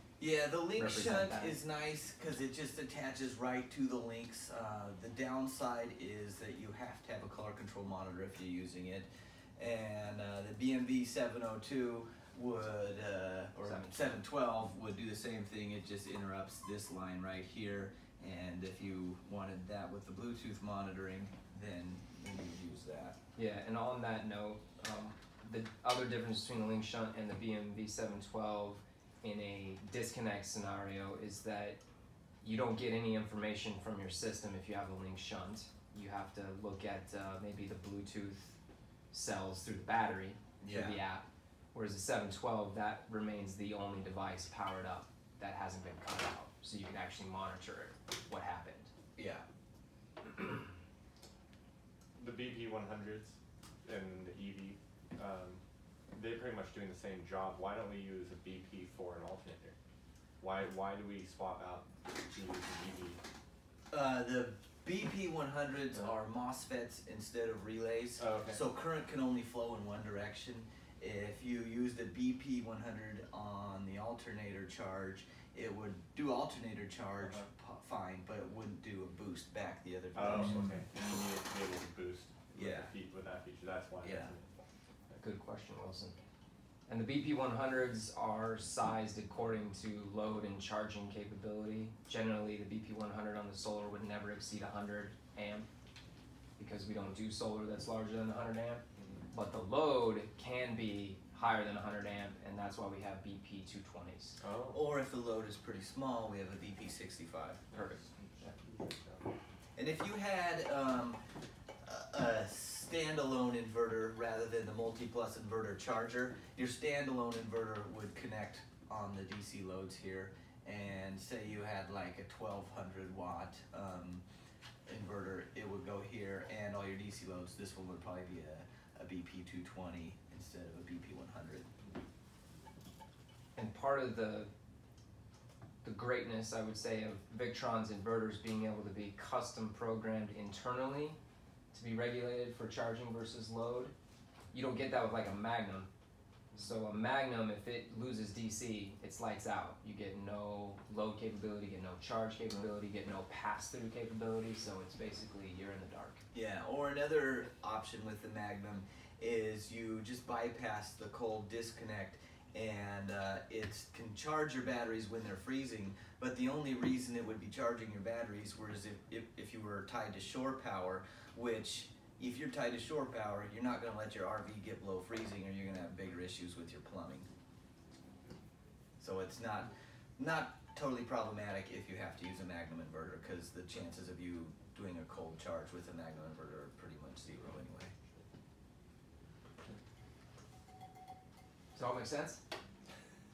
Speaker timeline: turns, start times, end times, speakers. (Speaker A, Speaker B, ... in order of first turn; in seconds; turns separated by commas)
Speaker A: 0.2-23.2, Speaker B: 0.8-1.6, Speaker B: 13.6-14.2, Speaker B: 23.4-31.8, Speaker B: 32.4-38.6, Speaker B: 39.1-48.9, Speaker A: 40.6-41.0, Speaker A: 49.2-49.5, Speaker C: 52.2-55.6, Speaker C: 56.1-59.8, Speaker C: 60.4-63.2, Speaker A: 63.9-80.7, Speaker C: 68.2-68.6, Speaker C: 80.2-84.5, Speaker A: 82.5-82.9, Speaker A: 84.0-84.3, Speaker B: 85.2-86.2, Speaker B: 86.9-95.7, Speaker B: 96.6-104.4, Speaker C: 99.0-99.2, Speaker C: 104.4-104.8, Speaker A: 104.7-107.6, Speaker C: 107.7-109.3, Speaker A: 109.8-111.2, Speaker A: 111.8-124.2, Speaker A: 124.9-131.7, Speaker B: 133.6-134.5, Speaker B: 135.8-141.2, Speaker B: 141.7-143.9, Speaker B: 144.5-145.9, Speaker B: 146.5-156.2, Speaker A: 156.3-177.3, Speaker A: 179.0-187.9, Speaker B: 191.8-192.4